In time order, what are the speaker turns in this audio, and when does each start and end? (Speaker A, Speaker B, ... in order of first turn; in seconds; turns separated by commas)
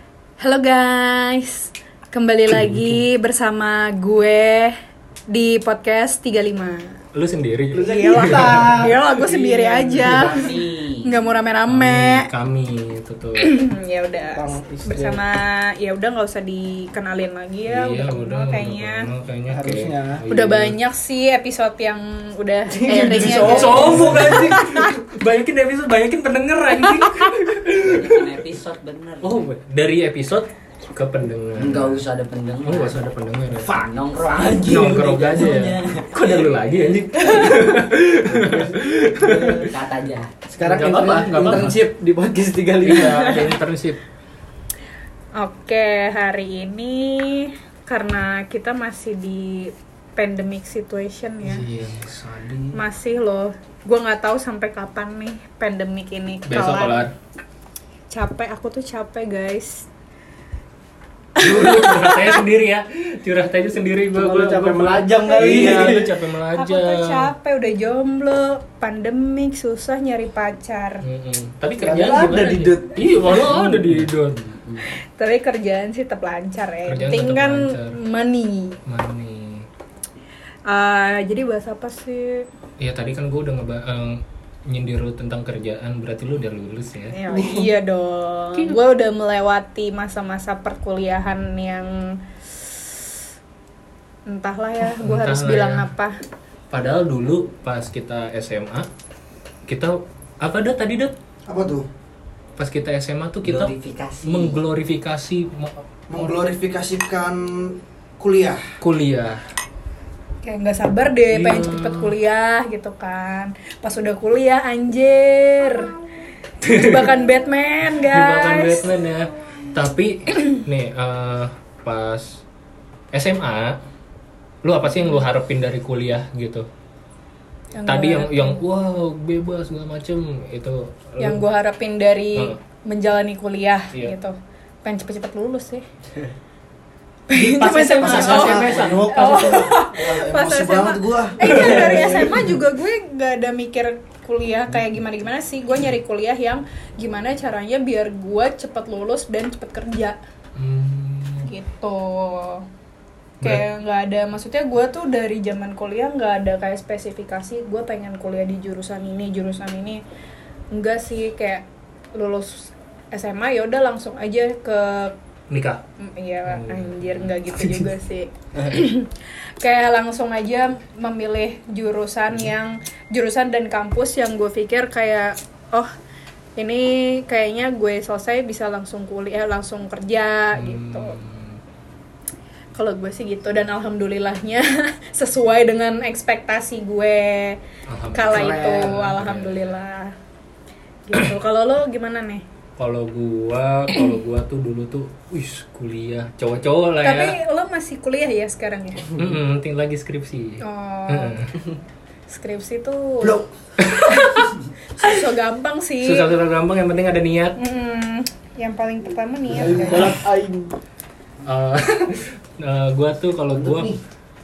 Speaker A: 0.4-4.8, Speaker A: 5.3-7.0, Speaker B: 7.1-8.9, Speaker C: 7.7-10.4, Speaker A: 7.8-10.5, Speaker D: 10.0-11.1, Speaker A: 11.0-12.3, Speaker B: 11.7-13.6, Speaker A: 13.4-19.1, Speaker C: 14.3-15.2, Speaker B: 17.7-20.8, Speaker C: 19.5-20.2, Speaker A: 20.3-24.9, Speaker C: 22.7-24.6, Speaker B: 23.3-28.3, Speaker A: 26.8-27.3, Speaker D: 27.8-29.5, Speaker B: 29.2-32.0, Speaker D: 31.6-33.0, Speaker B: 32.6-33.8, Speaker D: 33.5-37.6, Speaker B: 34.6-39.7, Speaker C: 38.2-39.7, Speaker D: 39.7-40.3, Speaker C: 40.5-43.2, Speaker B: 40.6-41.8, Speaker D: 41.4-41.7, Speaker B: 42.8-44.0, Speaker A: 42.9-43.5, Speaker A: 45.4-51.6, Speaker B: 51.4-52.8, Speaker A: 52.7-57.0, Speaker B: 56.5-57.1, Speaker A: 58.1-59.8, Speaker A: 61.4-62.4, Speaker B: 61.4-67.3, Speaker C: 64.1-66.1, Speaker A: 65.3-66.0, Speaker A: 66.5-71.0, Speaker B: 71.0-74.4, Speaker C: 71.8-73.6, Speaker D: 73.9-74.8, Speaker A: 75.2-78.8, Speaker B: 76.9-78.0, Speaker B: 78.8-79.6, Speaker A: 80.7-82.5, Speaker B: 82.8-87.2, Speaker A: 87.1-92.8, Speaker C: 87.3-87.7, Speaker A: 94.3-96.2, Speaker B: 95.0-95.9, Speaker B: 96.7-98.9, Speaker B: 99.7-101.1, Speaker E: 101.5-101.9, Speaker B: 102.6-106.4, Speaker D: 103.4-104.6, Speaker E: 106.1-108.6, Speaker B: 108.8-109.4, Speaker A: 110.4-115.9, Speaker B: 111.3-112.1, Speaker B: 116.6-117.1, Speaker A: 116.7-118.9, Speaker B: 117.9-122.4, Speaker B: 123.1-123.8, Speaker B: 124.6-126.7, Speaker A: 127.8-128.6, Speaker B: 127.8-131.4, Speaker A: 131.2-135.8, Speaker A: 137.3-150.2, Speaker B: 137.3-139.2, Speaker E: 138.0-142.3, Speaker B: 141.4-141.9, Speaker B: 150.6-151.5, Speaker A: 151.4-152.7, Speaker A: 153.4-160.0, Speaker A: 160.7-165.1, Speaker B: 165.5-165.8, Speaker A: 166.0-175.9, Speaker B: 166.5-167.9, Speaker A: 176.6-181.2, Speaker B: 180.6-181.6, Speaker A: 182.7-187.6, Speaker B: 187.9-189.8, Speaker A: 188.1-190.1, Speaker C: 188.3-188.9, Speaker A: 191.1-192.4, Speaker B: 192.8-197.3, Speaker A: 197.0-199.2, Speaker B: 199.2-201.5, Speaker A: 200.6-201.4, Speaker A: 202.3-203.4, Speaker B: 203.8-205.2, Speaker A: 204.1-206.3, Speaker B: 206.0-207.6, Speaker A: 207.6-210.2, Speaker C: 209.5-210.7, Speaker B: 209.8-210.2, Speaker B: 211.4-213.9, Speaker E: 213.5-214.0